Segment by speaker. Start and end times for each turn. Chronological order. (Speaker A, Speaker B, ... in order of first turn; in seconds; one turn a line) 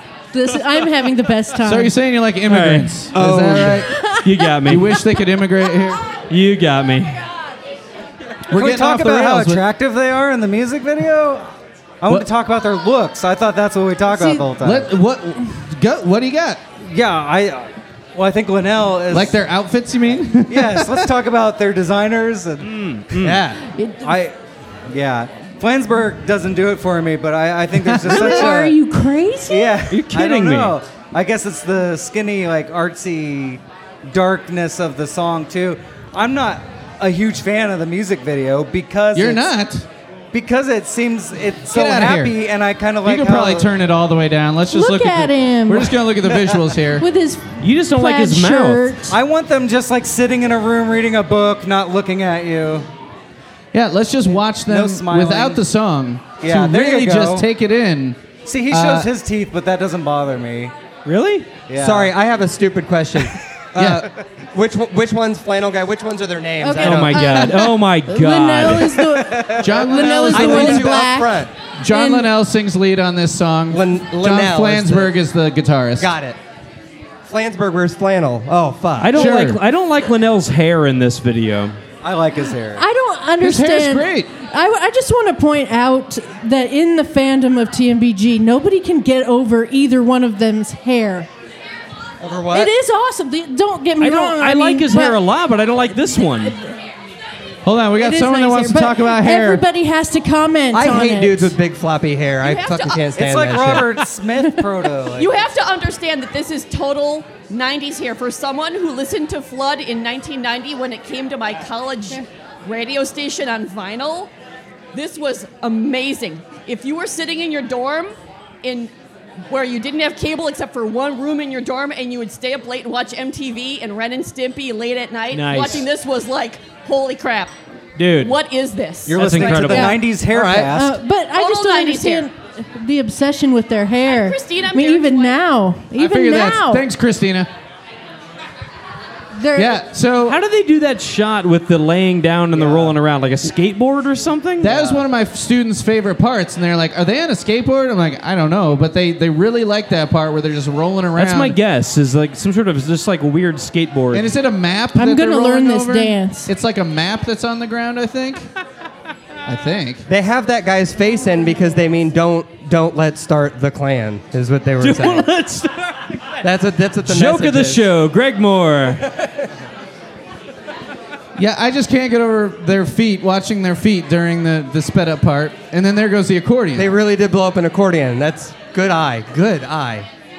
Speaker A: 0.3-1.9
Speaker B: 1.6-6.1
Speaker C: 2.5-3.1
Speaker D: 3.2-3.8
Speaker A: 3.9-4.2
Speaker C: 4.2-5.0
Speaker C: 6.2-7.2
Speaker B: 8.5-9.6
Speaker E: 8.5-11.4
Speaker E: 12.0-14.9
Speaker B: 14.5-16.6
Speaker E: 16.8-19.4
Speaker B: 19.1-21.1
Speaker E: 20.5-22.7
Speaker C: 22.6-23.4
Speaker B: 23.2-23.6
Speaker A: 23.8-24.1
Speaker E: 24.0-24.4
Speaker E: 24.9-28.8
Speaker B: 27.9-28.5
Speaker A: 28.1-29.7
Speaker E: 29.5-39.5
Speaker C: 29.9-30.8
Speaker B: 39.1-39.8
Speaker E: 40.3-43.7
Speaker B: 41.6-42.4
Speaker B: 43.0-47.0
Speaker A: 44.7-46.0
Speaker A: 47.0-49.1
Speaker C: 47.6-48.9
Speaker E: 49.1-52.9
Speaker B: 53.7-58.2
Speaker E: 54.7-55.6
Speaker E: 56.4-57.5
Speaker E: 58.4-60.7
Speaker B: 58.7-59.1
Speaker C: 61.0-61.5
Speaker E: 61.7-62.1
Speaker D: 61.7-64.0
Speaker B: 63.8-64.1
Speaker D: 64.5-67.4
Speaker A: 66.6-72.3
Speaker C: 66.8-69.1
Speaker B: 69.6-71.1
Speaker D: 70.0-71.5
Speaker B: 71.8-76.1
Speaker D: 73.7-75.2
Speaker D: 76.0-76.4
Speaker D: 77.3-79.3
Speaker C: 79.0-81.8
Speaker B: 79.1-79.6
Speaker E: 82.0-82.8
Speaker A: 82.8-91.3
Speaker B: 83.4-84.3
Speaker D: 92.2-92.7
Speaker A: 92.5-95.2
Speaker C: 94.0-96.5
Speaker B: 97.6-99.6
Speaker A: 98.0-101.5
Speaker D: 100.7-104.0
Speaker F: 102.4-103.1
Speaker E: 103.1-105.3
Speaker F: 105.1-114.3
Speaker F: 114.9-118.9
Speaker F: 119.5-127.5
Speaker C: 125.3-125.9
Speaker C: 128.0-128.3
Speaker F: 128.2-129.9
Speaker E: 129.1-131.0
Speaker C: 129.1-130.0
Speaker A: 129.7-130.0
Speaker A: 130.7-136.8
Speaker F: 131.3-132.3
Speaker F: 134.1-135.3
Speaker B: 135.9-137.5
Speaker A: 139.3-139.8
Speaker B: 139.5-140.4
Speaker C: 140.2-144.9
Speaker B: 144.6-151.6
Speaker C: 151.2-154.3
Speaker B: 154.1-158.5
Speaker A: 154.9-156.5
Speaker B: 159.4-160.0
Speaker D: 160.1-165.3
Speaker C: 164.8-166.1
Speaker D: 166.4-167.8
Speaker C: 167.0-169.1
Speaker B: 171.3-176.9
Speaker D: 176.7-180.1